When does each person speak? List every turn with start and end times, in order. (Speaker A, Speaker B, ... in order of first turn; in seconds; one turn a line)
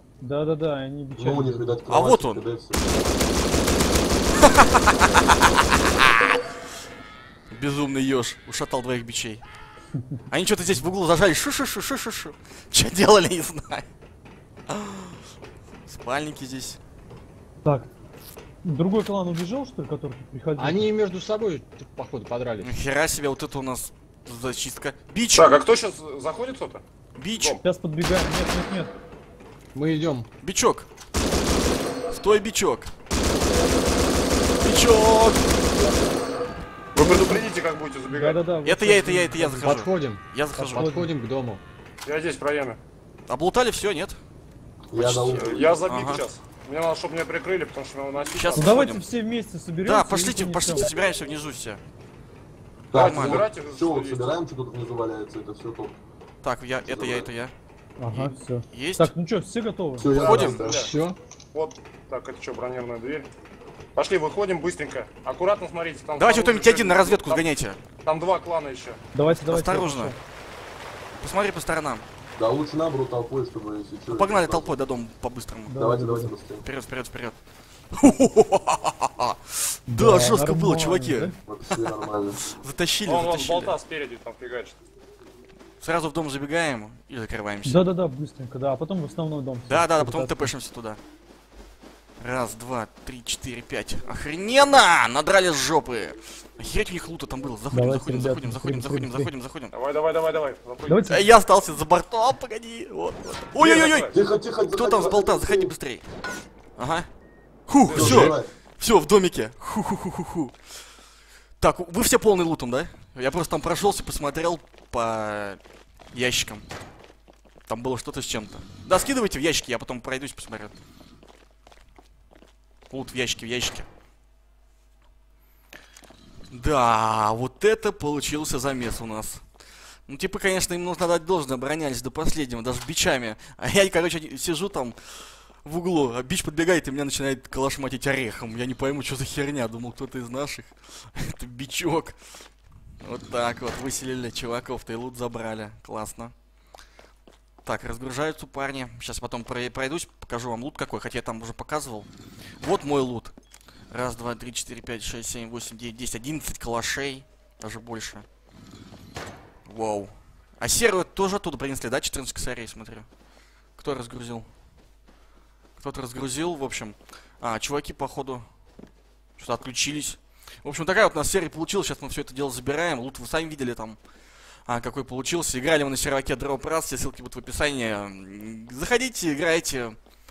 Speaker A: 0.2-1.8
Speaker B: 1.1-3.0
Speaker C: 1.9-2.4
Speaker C: 4.3-6.4
Speaker C: 7.5-9.4
Speaker C: 10.3-13.9
Speaker C: 14.7-15.2
Speaker C: 15.9-16.8
Speaker A: 17.6-17.9
Speaker A: 18.6-20.9
Speaker D: 20.6-22.8
Speaker C: 22.6-25.6
Speaker E: 25.3-27.6
Speaker C: 27.1-27.6
Speaker A: 27.6-28.9
Speaker D: 29.7-30.3
Speaker C: 30.4-30.9
Speaker C: 32.1-32.9
Speaker C: 34.6-35.6
Speaker E: 36.9-38.4
Speaker A: 37.0-37.4
Speaker A: 38.1-39.9
Speaker C: 38.6-40.9
Speaker D: 39.6-41.6
Speaker A: 40.5-41.1
Speaker E: 42.0-42.8
Speaker C: 43.3-44.2
Speaker B: 44.9-45.8
Speaker C: 44.9-46.2
Speaker E: 45.2-48.9
Speaker C: 48.3-49.1
Speaker A: 48.5-50.9
Speaker C: 49.8-51.8
Speaker B: 52.9-56.0
Speaker C: 52.9-53.5
Speaker E: 52.9-54.4
Speaker C: 56.4-57.5
Speaker B: 56.8-57.3
Speaker A: 58.0-60.1
Speaker C: 58.1-59.1
Speaker B: 59.9-60.8
Speaker E: 60.1-60.9
Speaker C: 60.1-60.8
Speaker D: 60.6-61.2
Speaker E: 61.5-63.3
Speaker E: 64.0-67.5
Speaker C: 66.2-67.8
Speaker E: 68.0-69.0
Speaker A: 69.1-70.2
Speaker C: 69.4-70.1
Speaker C: 71.2-72.0
Speaker B: 72.3-74.8
Speaker C: 74.1-75.7
Speaker A: 75.7-76.3
Speaker B: 75.7-76.7
Speaker C: 76.6-77.4
Speaker C: 77.9-81.9
Speaker A: 79.9-81.3
Speaker B: 81.5-82.4
Speaker C: 82.5-83.8
Speaker E: 83.0-84.8
Speaker C: 85.8-87.8
Speaker A: 87.6-90.5
Speaker C: 89.7-91.0
Speaker C: 92.2-99.7
Speaker A: 97.7-99.3
Speaker E: 99.7-101.0
Speaker A: 100.8-101.2
Speaker C: 101.0-104.1
Speaker E: 103.6-104.1
Speaker B: 104.1-105.7
Speaker C: 104.7-106.0
Speaker C: 106.8-107.1
Speaker C: 107.7-110.5
Speaker E: 107.8-108.4
Speaker B: 107.9-108.5
Speaker C: 111.6-115.6
Speaker C: 116.1-116.6
Speaker C: 117.7-120.7
Speaker C: 122.9-123.8
Speaker C: 126.5-129.4
Speaker C: 130.1-135.0
Speaker C: 135.6-142.2
Speaker C: 143.0-146.3
Speaker C: 147.6-152.1
Speaker C: 152.6-153.3
Speaker C: 153.9-158.2
Speaker C: 159.7-163.1
Speaker C: 163.8-164.5
Speaker C: 165.8-168.5
Speaker C: 169.4-174.0
Speaker C: 174.7-180.0